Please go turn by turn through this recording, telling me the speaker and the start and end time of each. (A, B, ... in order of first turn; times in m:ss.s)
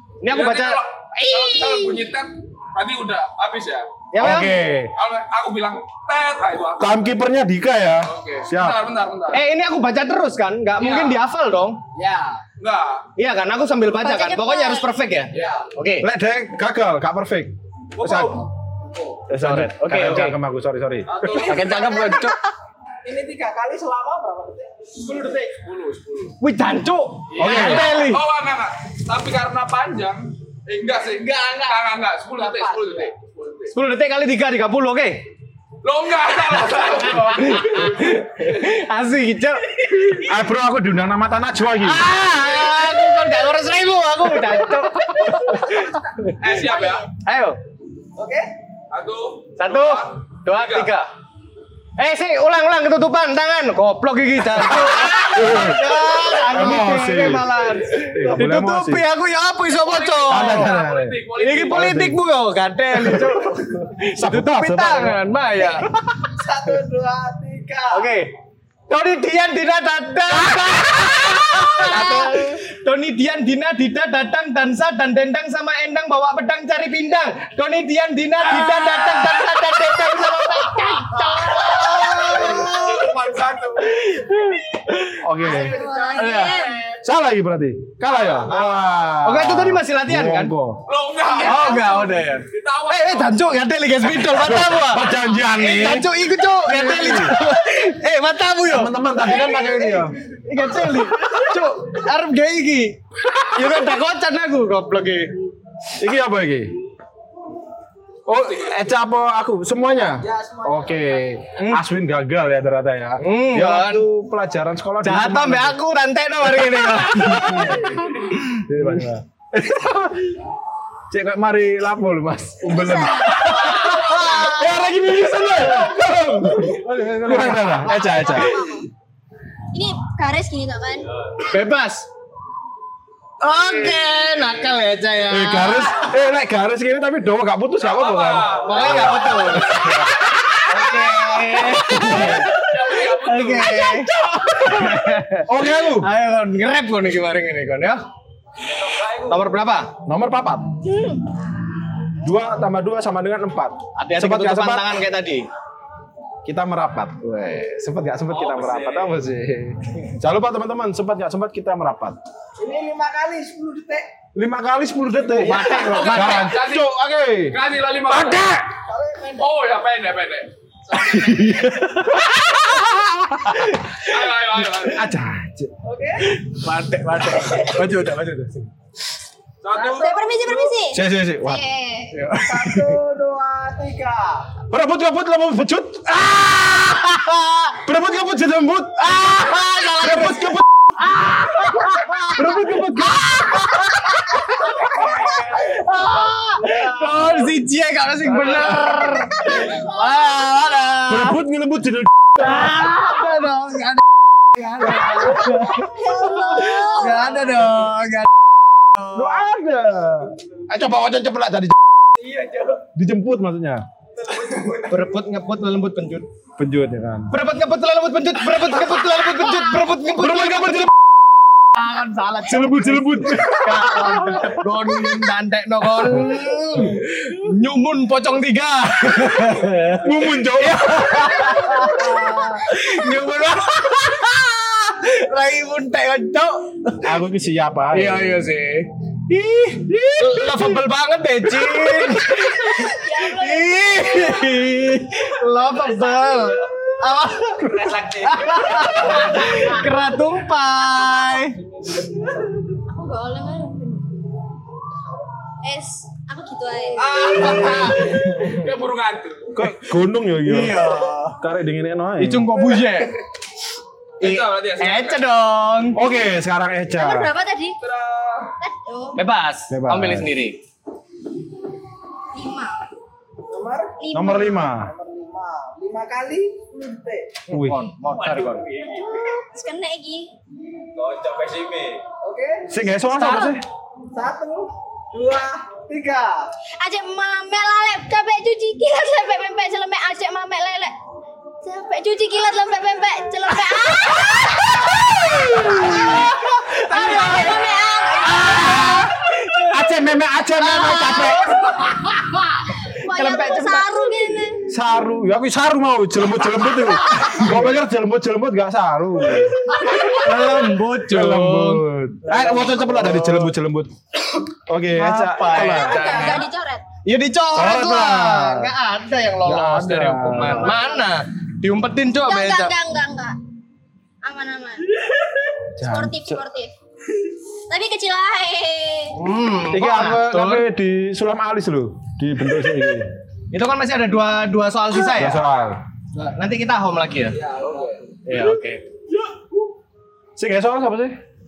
0:00.2-0:02.0 A
0:00.3-0:03.9 B
0:04.1-0:04.6 A
0:04.2-0:04.9 C
0:04.9-0:06.9 B
0:06.8-0:08.8 C
0:08.0-0:09.4 B
0:09.3-0:11.8 A
0:10.8-0:11.2 B
0:11.9-0:12.4 D
0:12.6-0:13.0 B
0:13.2-0:16.1 A
0:14.0-0:15.0 E
0:15.3-0:15.6 B
0:16.0-0:18.4 C
0:18.0-0:18.5 B
0:19.3-0:21.3 C
0:19.3-0:20.4 A
0:21.1-0:22.0 B
0:21.2-0:22.3 D
0:21.3-0:22.4 A
0:23.0-0:25.1 D
0:25.0-0:26.4 B
0:26.4-0:28.2 A
0:27.3-0:33.7 B
0:27.4-0:27.9 C
0:31.2-0:31.8 D
0:32.4-0:33.1 D
0:33.7-0:35.2 A
0:35.8-0:38.7 B
0:36.6-0:40.3 A
0:40.2-0:42.0 C
0:41.8-0:46.3 A
0:46.3-0:47.1 B
0:47.2-0:47.6 A
0:48.2-0:48.5 D
0:48.9-0:50.9 B
0:49.6-0:51.1 A
0:52.0-1:00.8 A
0:55.2-0:59.0 C
0:59.7-1:01.9 B
1:00.3-1:02.2 C
1:01.4-1:05.9 A
1:02.9-1:03.4 C
1:04.1-1:05.2 C
1:06.3-1:08.1 D
1:07.9-1:08.3 A
1:08.9-1:23.2 A
1:10.5-1:11.1 C
1:18.6-1:19.4 B
1:21.4-1:24.0 B
1:23.7-1:25.2 A
1:25.2-1:25.8 C
1:25.4-1:26.7 D
1:25.4-1:26.8 E
1:26.2-1:26.7 A
1:27.0-1:30.8 C
1:29.2-1:30.5 A
1:30.9-1:33.4 B
1:31.3-1:38.9 A
1:34.2-1:36.1 C
1:36.6-1:37.4 C
1:38.7-1:40.2 C
1:40.3-1:43.0 A
1:43.5-1:45.3 A
1:46.0-1:46.7 C
1:48.3-1:55.8 C
1:50.2-1:51.2 D
1:51.6-1:51.8 A
1:53.2-1:54.0 A
1:55.0-1:58.4 A
1:56.9-2:00.4 C
2:01.1-2:08.6 C
2:02.6-2:03.9 E
2:03.8-2:04.6 A
2:06.6-2:08.0 A
2:07.8-2:08.9 E
2:09.7-2:11.1 E
2:11.4-2:12.1 A
2:13.4-2:16.1 A
2:15.3-2:20.3 C
2:17.8-2:19.7 B
2:18.6-2:28.0 A
2:21.8-2:22.5 C
2:22.4-2:24.0 B
2:24.1-2:26.1 C
2:28.8-2:29.4 B
2:29.3-2:29.9 A
2:30.0-2:30.8 C
2:32.2-2:34.9 C
2:34.0-2:35.5 A
2:36.4-2:42.2 C
2:38.3-2:39.2 B
2:42.6-2:44.1 D
2:44.3-2:47.6 C
2:45.4-2:46.5 A
2:45.5-2:45.9 D
2:45.6-2:46.9 B
2:47.5-2:48.6 B
2:48.1-2:48.6 C
2:48.8-2:49.5 D
2:49.4-2:50.5 B
2:51.0-2:52.8 A
2:51.3-2:53.7 C
2:53.4-2:54.2 A
2:54.0-2:55.1 B
2:54.8-2:55.7 C
2:55.8-2:56.3 D
2:56.3-2:58.7 A
2:59.6-3:00.1 B
2:59.7-3:00.7 D
2:59.8-3:02.1 E
3:00.9-3:01.6 C
3:02.1-3:03.0 A
3:02.4-3:04.5 D
3:04.7-3:06.3 C
3:06.2-3:07.8 A
3:07.8-3:10.6 C
3:09.0-3:21.4 A
3:12.3-3:14.7 C
3:21.0-3:22.7 C
3:22.4-3:28.3 A
3:24.8-3:26.5 C
3:26.0-3:27.0 E
3:29.0-3:31.8 C
3:32.9-3:33.8 C
3:34.7-3:36.3 A
3:36.6-3:37.3 C
3:37.3-3:40.9 A
3:40.1-3:40.9 C
3:41.7-3:57.1 A
3:42.4-3:45.3 C
3:50.0-3:51.9 C
3:57.0-3:58.4 C
3:57.9-4:11.6 A
4:00.0-4:00.6 C
4:02.7-4:04.7 E
4:12.9-4:14.2 E
4:15.6-4:17.3 E
4:17.0-4:19.5 B
4:17.3-4:18.5 A
4:19.5-4:22.5 C
4:20.4-4:21.4 A
4:22.2-4:23.2 A
4:24.2-4:25.2 B
4:24.2-4:26.0 A
4:25.9-4:27.3 C
4:27.0-4:27.8 E
4:27.8-4:28.5 B
4:28.6-4:29.2 E
4:29.2-4:30.6 A
4:29.7-4:30.3 C
4:32.3-4:32.8 E
4:33.5-4:37.4 D
4:34.0-4:34.6 E
4:34.1-4:34.9 C
4:37.5-4:38.7 A
4:37.5-4:37.8 C
4:38.8-4:40.3 E
4:42.2-4:42.7 D
4:42.7-4:43.6 C
4:43.2-4:43.5 E
4:44.1-4:46.5 D
4:46.8-4:50.9 E
4:51.6-4:59.1 E
4:55.5-4:56.0 C
4:58.6-4:59.7 A
4:59.6-5:01.7 C
5:00.8-5:01.7 E
5:02.8-5:04.7 E
5:02.9-5:03.9 A
5:04.7-5:13.9 C
5:07.2-5:07.5 A
5:09.8-5:13.5 A
5:14.7-5:16.3 C
5:14.9-5:16.4 A
5:15.5-5:16.8 E
5:17.0-5:22.7 A
5:17.5-5:18.7 C
5:19.4-5:20.8 C
5:20.4-5:21.0 E
5:22.2-5:23.4 E
5:24.2-5:24.9 E
5:25.8-5:26.4 C
5:25.8-5:26.7 E
5:27.7-5:29.2 E
5:29.1-5:30.6 A
5:29.7-5:33.1 C
5:33.5-5:35.4 A
5:35.1-5:35.8 C
5:36.2-5:37.4 A
5:37.3-5:38.1 B
5:38.2-5:38.8 A
5:40.4-5:41.2 C